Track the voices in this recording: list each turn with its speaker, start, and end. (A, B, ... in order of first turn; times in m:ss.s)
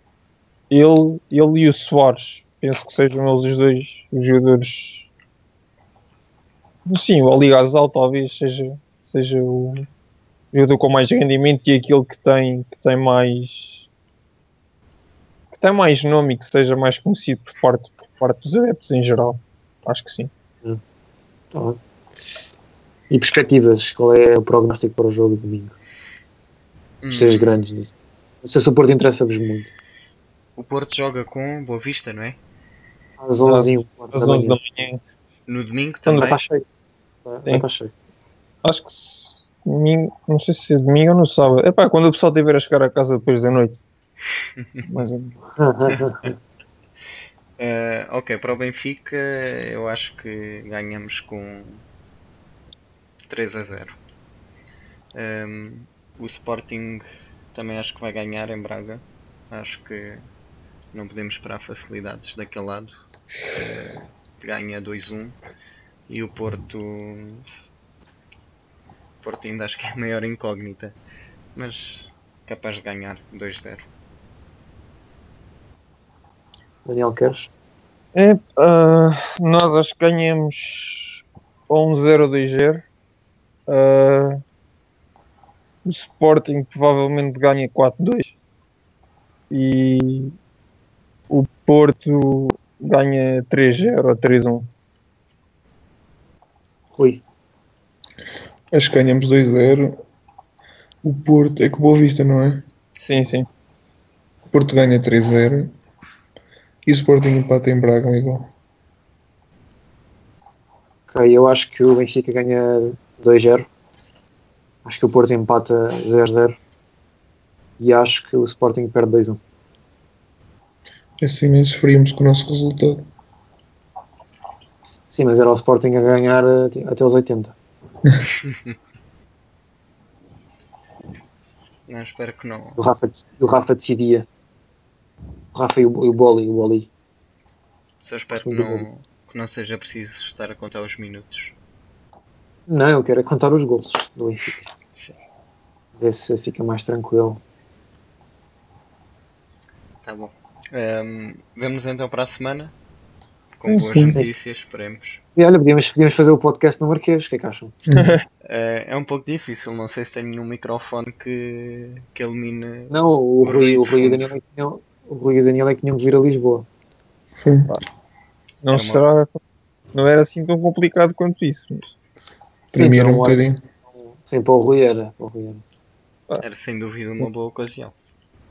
0:00.7-0:05.1 A
0:06.9-0:09.8 A
0:10.5-0:13.8 A
0:15.5-0:20.3 A
0:21.5-0:21.8 B
0:23.1-0:25.8 B
0:27.0-0:27.5 C
0:27.1-0:29.7 B
0:30.6-0:32.4 C
0:33.2-0:34.6 B
0:33.4-0:35.0 A
0:35.5-0:36.4 C
0:36.1-0:36.6 B
0:37.2-0:37.9 B
0:38.6-0:43.8 A
0:44.6-0:44.8 C
0:44.8-0:45.4 A
0:45.6-0:46.4 B
0:47.6-0:51.8 C
0:53.3-0:54.0 C
0:55.1-1:00.3 C
1:00.9-1:03.0 C
1:03.6-1:03.9 C
1:04.4-1:05.4 C
1:06.1-1:07.5 C
1:09.2-1:11.0 C
1:11.6-1:13.9 C
1:16.8-1:17.5 B
1:18.1-1:22.8 A
1:23.7-1:24.4 A
1:25.8-1:28.3 A
1:29.5-1:30.3 A
1:31.3-1:34.7 A
1:36.9-1:37.2 B
1:38.7-1:40.0 D
1:41.0-1:42.6 D
1:43.0-1:43.5 A
1:44.5-1:45.7 D
1:46.8-1:48.5 D
1:51.1-1:53.7 B
1:54.8-1:56.6 B
1:57.8-1:59.4 B
2:01.2-2:03.0 D
2:05.1-2:07.5 B
2:08.4-2:08.7 C
2:11.9-2:12.8 C
2:12.8-2:14.2 B
2:15.5-2:16.9 B
2:18.0-2:21.6 C
2:18.3-2:18.9 B
2:22.7-2:24.7 B
2:26.0-2:27.4 B
2:30.0-2:32.7 C
2:33.6-2:35.2 C
2:33.7-2:34.2 D
2:35.4-2:37.7 B
2:37.8-2:38.2 D
2:37.9-2:38.2 A
2:38.4-2:44.3 C
2:42.9-2:46.7 B
2:47.3-2:47.7 D
2:48.6-2:49.4 A
2:48.7-2:49.0 C
2:49.9-2:51.9 A
2:52.7-2:53.6 D
2:52.7-2:55.6 B
2:56.4-2:57.9 C